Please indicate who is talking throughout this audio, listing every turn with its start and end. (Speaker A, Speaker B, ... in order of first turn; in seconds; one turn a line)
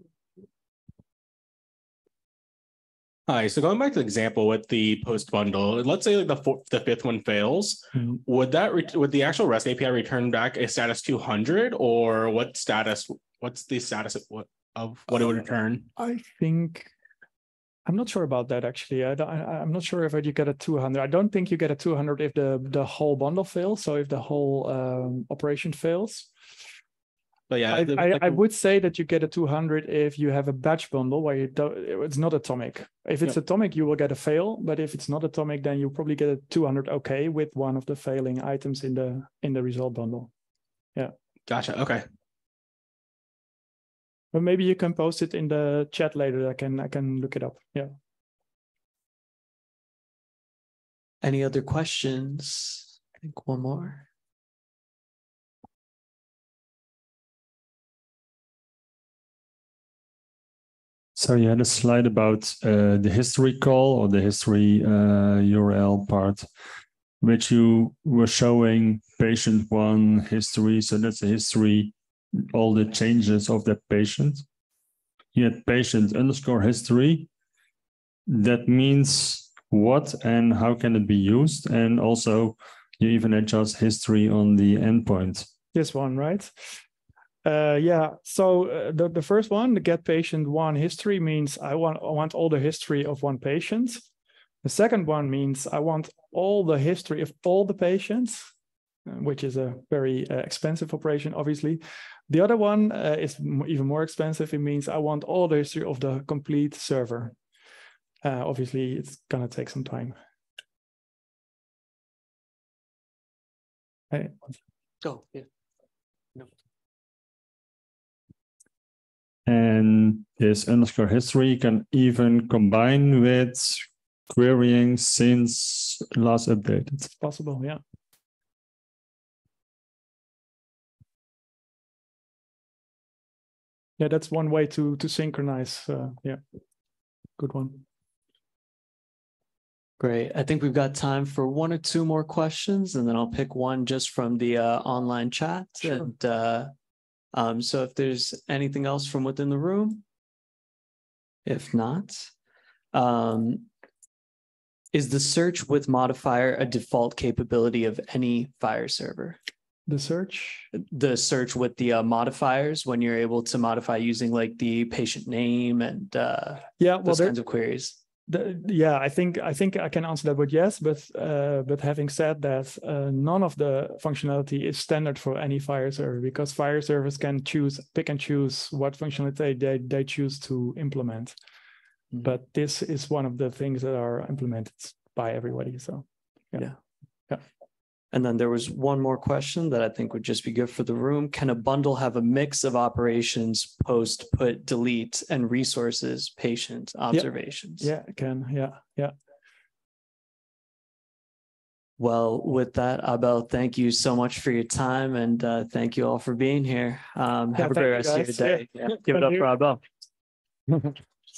Speaker A: 3.3-15.9
Speaker B: 7.9-8.2
Speaker B: 15.9-16.9
Speaker B: 17.9-26.3
Speaker A: 27.5-28.4
Speaker B: 27.7-40.3
Speaker A: 41.5-42.0
Speaker B: 44.3-47.9
Speaker C: 51.2-54.1
Speaker D: 61.1-66.5
Speaker D: 67.2-71.9
Speaker D: 72.5-74.5
Speaker D: 75.3-77.3
Speaker D: 78.3-85.5
Speaker B: 85.7-86.8
Speaker B: 87.4-94.1
Speaker B: 94.6-98.5
Speaker B: 99.1-107.3
Speaker B: 108.2-110.2
Speaker B: 114.1-114.5
Speaker C: 115.0-115.5
Speaker D: 119.5-127.1
Speaker B: 127.1-127.8
Speaker B: 134.0-136.4
Speaker B: 137.4-137.8
Speaker C: 140.0-146.7
Speaker B: 145.8-146.1
Speaker C: 147.3-150.0
Speaker C: 151.4-152.3
Speaker C: 152.9-153.7
Speaker C: 154.9-159.4
Speaker B: 159.9-160.7
Speaker C: 160.7-168.0
Speaker B: 166.8-167.4
Speaker B: 168.3-181.3
Speaker B: 182.2-186.7
Speaker C: 188.1-197.9
Speaker B: 197.1-199.1
Speaker C: 202.0-209.8
Speaker B: 207.6-209.5